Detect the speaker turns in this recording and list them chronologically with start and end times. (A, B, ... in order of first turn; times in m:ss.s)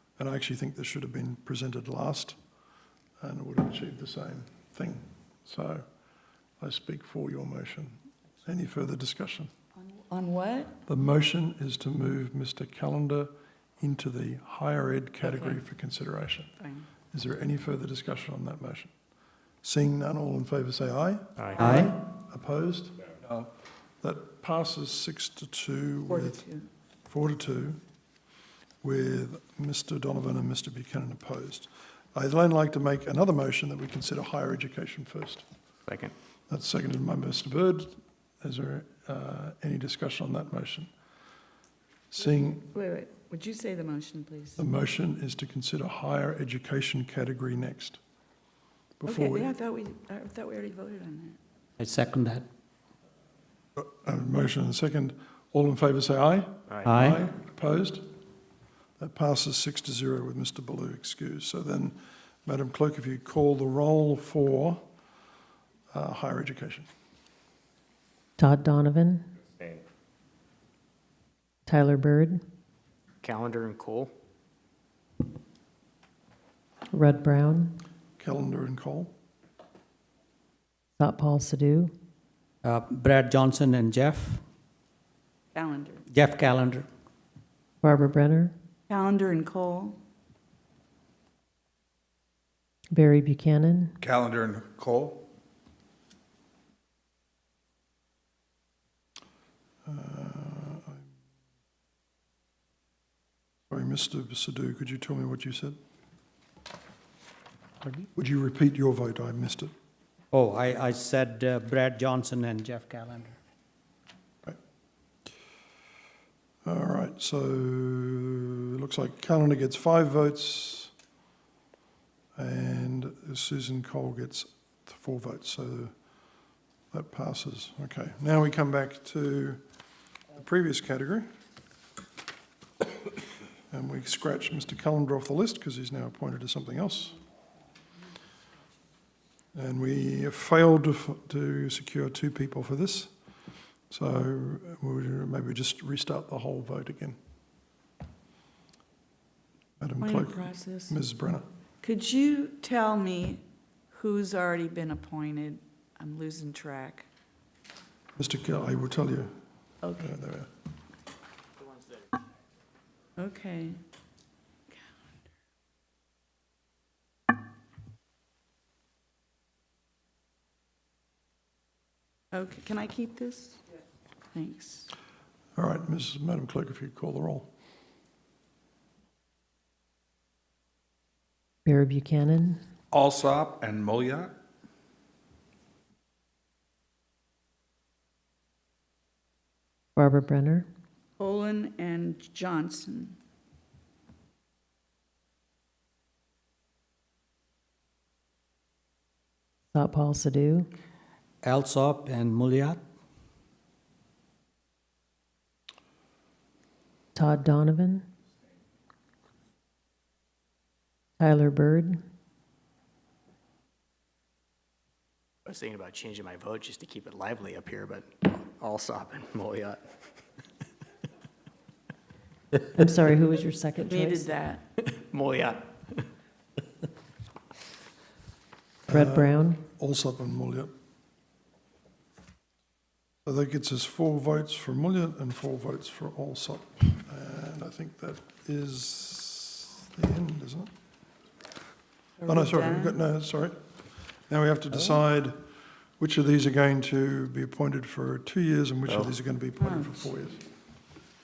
0:00.2-0:02.4 A
0:03.2-0:05.8 A
0:06.6-0:09.5 A
0:10.1-0:10.8 B
0:10.9-0:16.6 A
0:16.6-0:16.9 B
0:17.1-0:18.9 A
0:19.6-0:23.0 A
0:21.4-0:21.7 C
0:21.6-0:22.0 D
0:24.0-0:26.4 A
0:26.1-0:26.7 B
0:27.1-0:27.8 A
0:28.8-0:35.4 A
0:35.9-0:36.1 C
0:36.5-0:40.9 A
0:42.1-0:42.7 A
0:42.7-0:44.6 B
0:44.6-0:48.0 A
0:49.0-0:49.5 A
0:49.1-0:51.4 B
0:51.8-0:52.5 D
0:53.8-0:58.1 A
0:56.8-0:57.2 D
0:59.0-1:04.8 A
1:05.9-1:06.9 A
1:08.4-1:09.2 E
1:11.7-1:12.4 E
1:13.2-1:14.1 C
1:16.9-1:17.8 E
1:18.2-1:19.2 A
1:21.0-1:21.9 E
1:22.6-1:24.4 D
1:25.5-1:26.0 B
1:26.1-1:26.9 D
1:27.8-1:28.5 E
1:28.9-1:30.0 B
1:32.9-1:34.0 E
1:34.0-1:35.3 F
1:39.9-1:41.0 A
1:43.7-1:45.8 A
1:48.2-1:49.7 A
1:50.3-1:53.4 D
1:56.6-2:00.9 A
2:02.4-2:05.9 A
2:06.9-2:09.6 A
2:10.4-2:11.3 A
2:13.7-2:17.2 A
2:19.5-2:23.1 A
2:23.9-2:27.2 A
2:29.8-2:31.5 A
2:30.0-2:31.0 B
2:31.8-2:37.1 B
2:38.2-2:39.4 A
2:39.8-2:40.2 B
2:40.0-2:40.5 A
2:43.2-2:43.8 B
2:52.3-2:53.6 B
2:54.3-2:54.9 B
2:55.6-2:57.5 A
3:01.6-3:02.6 E
3:02.9-3:04.4 F
3:10.0-3:10.7 E
3:11.2-3:13.2 B
3:19.7-3:20.7 E
3:21.4-3:22.8 D
3:27.2-3:28.0 E
3:31.2-3:32.0 E
3:35.4-3:39.8 C
3:42.7-3:44.3 E
3:43.9-3:44.6 B
3:44.9-3:46.0 C
3:48.9-3:50.7 A
3:48.9-3:49.6 E
3:53.2-4:00.7 A
4:02.2-4:03.0 B
4:02.3-4:03.6 A
4:04.1-4:05.4 A
4:06.0-4:10.4 A
4:09.6-4:10.1 B